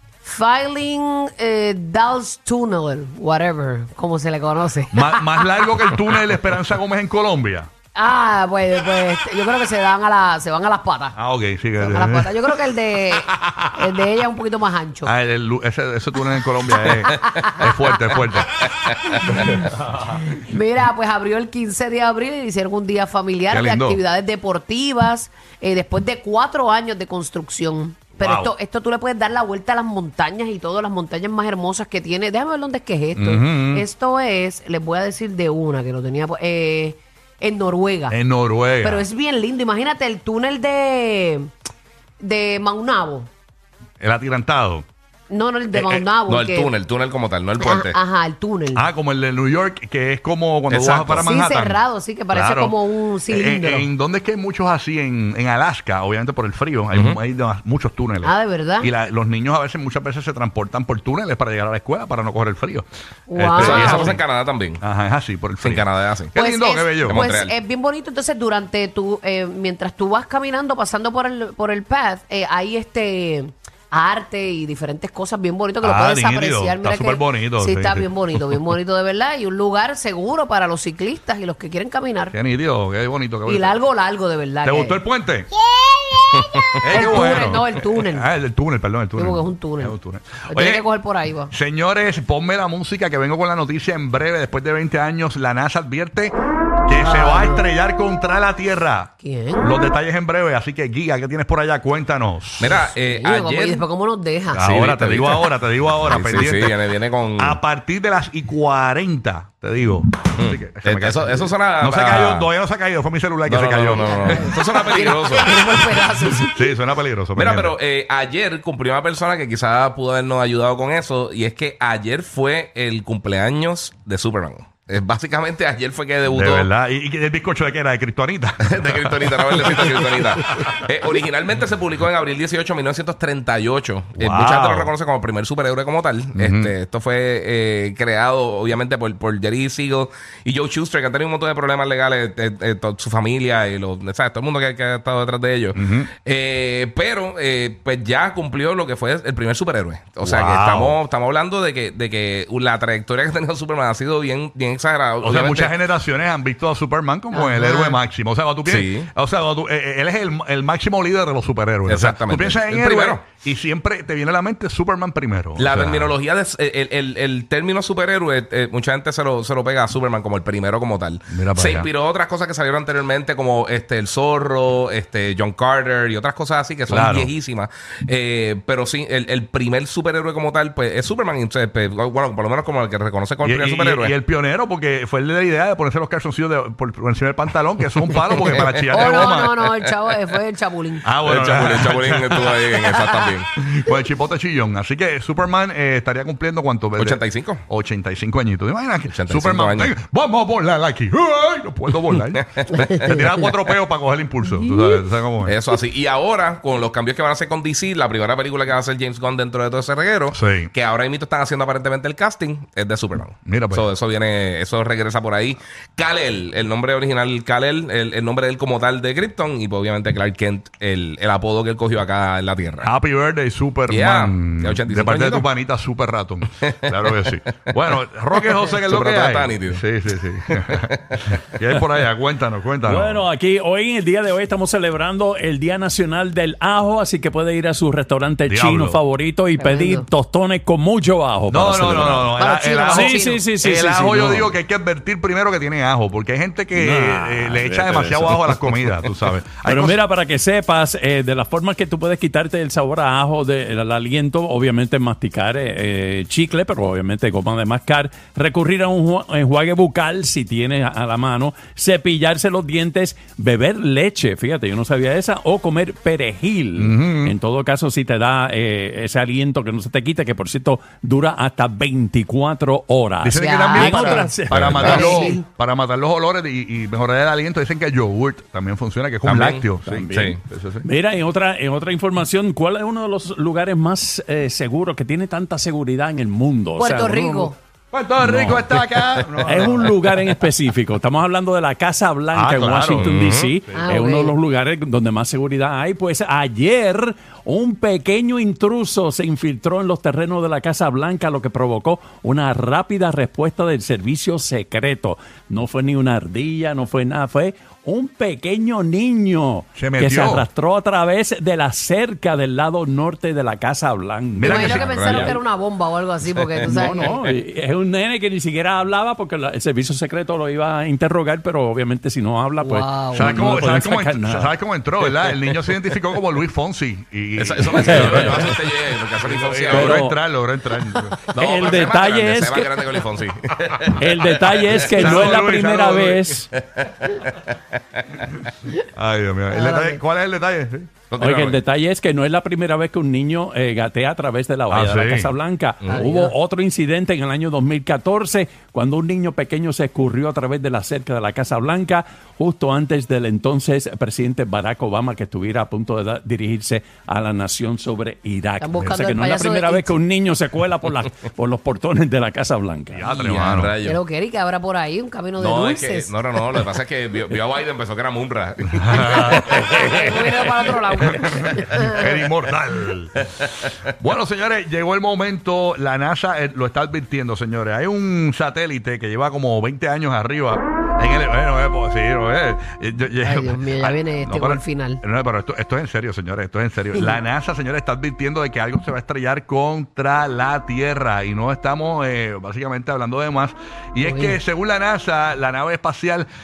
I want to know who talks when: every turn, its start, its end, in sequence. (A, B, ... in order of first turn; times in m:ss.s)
0:00.2-0:05.7 A
0:04.9-0:07.7 B
0:08.0-0:11.2 A
0:11.2-0:12.5 B
0:11.8-0:15.1 A
0:13.2-0:13.7 B
0:15.0-0:18.6 B
0:16.8-0:18.2 A
0:18.8-0:19.6 C
0:19.0-0:38.2 A
0:19.3-0:20.0 B
0:23.5-0:24.0 B
0:28.2-0:28.5 B
0:33.2-0:33.9 B
0:38.1-0:39.1 B
0:38.8-0:41.5 A
0:42.2-0:43.3 A
0:44.0-0:44.9 B
0:45.3-0:46.7 A
0:45.7-0:46.1 B
0:46.3-0:48.0 C
0:47.6-0:48.9 A
0:48.8-1:04.2 B
0:50.7-0:51.3 C
0:51.2-0:53.9 A
0:56.9-0:57.2 C
0:58.2-0:58.9 A
1:03.3-1:04.2 A
1:03.6-1:04.8 C
1:04.8-1:07.2 B
1:05.6-1:06.3 C
1:06.4-1:22.3 A
1:07.0-1:07.5 C
1:15.8-1:18.1 B
1:22.3-1:23.8 B
1:23.5-1:25.0 A
1:24.6-1:25.5 B
1:25.6-1:28.3 A
1:26.8-1:30.9 B
1:29.2-1:29.9 A
1:30.5-1:31.5 A
1:31.5-1:36.4 B
1:36.9-1:42.8 B
1:36.9-1:37.6 A
1:39.2-1:39.7 A
1:42.6-1:43.9 C
1:42.9-1:44.6 A
1:44.5-1:45.5 C
1:44.5-1:54.6 B
1:46.1-1:47.6 C
1:50.4-1:52.5 C
1:53.5-1:55.5 C
1:54.0-1:56.7 A
1:56.4-1:57.8 B
1:57.4-2:06.7 C
2:06.3-2:10.9 B
2:08.7-2:35.8 C
2:14.2-2:14.9 B
2:16.4-2:16.7 B
2:25.8-2:26.1 B
2:30.2-2:31.0 B
2:35.2-2:46.1 B
2:37.3-2:38.0 A
2:38.7-2:39.1 C
2:41.9-2:43.3 C
2:45.6-3:04.2 C
2:51.3-2:51.9 B
2:56.9-2:57.3 B
3:03.4-3:09.6 B
3:08.4-3:09.7 C
3:08.5-3:11.1 A
3:11.0-3:12.6 B
3:11.2-3:13.5 C
3:13.6-3:25.6 B
3:17.0-3:17.6 C
3:19.1-3:19.9 C
3:22.1-3:23.5 C
3:25.4-3:42.9 C
3:30.3-3:30.7 B
3:33.5-3:33.9 B
3:42.8-3:53.2 B
3:43.9-3:45.5 C
3:48.4-3:49.8 C
3:50.5-3:51.4 C
3:52.9-4:02.3 D
3:58.5-3:59.0 B
3:59.6-4:00.1 A
4:01.5-4:10.0 B
4:02.3-4:03.4 A
4:02.9-4:04.5 D
4:06.8-4:09.1 D
4:09.6-4:35.4 D
4:26.8-4:27.4 B
4:33.2-4:40.9 B
4:33.3-4:34.3 A
4:34.8-4:35.4 A
4:39.2-4:40.4 C
4:39.9-4:47.5 D
4:46.8-4:47.6 A
4:47.9-4:49.9 B
4:48.2-4:48.8 D
4:49.4-5:15.4 D
4:52.3-4:54.0 B
4:53.0-4:53.5 C
4:53.8-4:54.3 A
5:09.8-5:10.5 B
5:14.4-5:15.4 B
5:14.4-5:17.3 A
5:14.8-5:15.3 C
5:16.4-5:16.9 C
5:16.6-5:24.5 D
5:22.6-5:23.3 A
5:23.1-5:28.6 B
5:27.4-5:30.0 C
5:27.8-5:28.5 D
5:29.2-5:31.3 B
5:29.7-5:30.2 D
5:30.9-5:32.7 D
5:31.3-5:35.3 C
5:33.9-5:36.5 D
5:34.8-5:36.4 B
5:36.5-5:38.3 C
5:39.0-5:40.9 B
5:39.5-5:40.0 A
5:41.1-5:41.6 C
5:41.2-6:03.0 D
5:44.7-5:45.3 B
5:45.9-5:46.1 C
5:45.9-5:46.4 A
5:58.6-6:00.0 A
6:02.9-6:03.7 B
6:03.1-6:04.0 C
6:03.8-6:06.2 A
6:05.4-6:10.4 C
6:08.8-6:09.7 B
6:09.1-6:12.1 A
6:09.7-6:10.0 D
6:11.0-6:13.2 B
6:14.0-6:36.3 B
6:23.2-6:25.0 A
6:34.0-6:34.4 A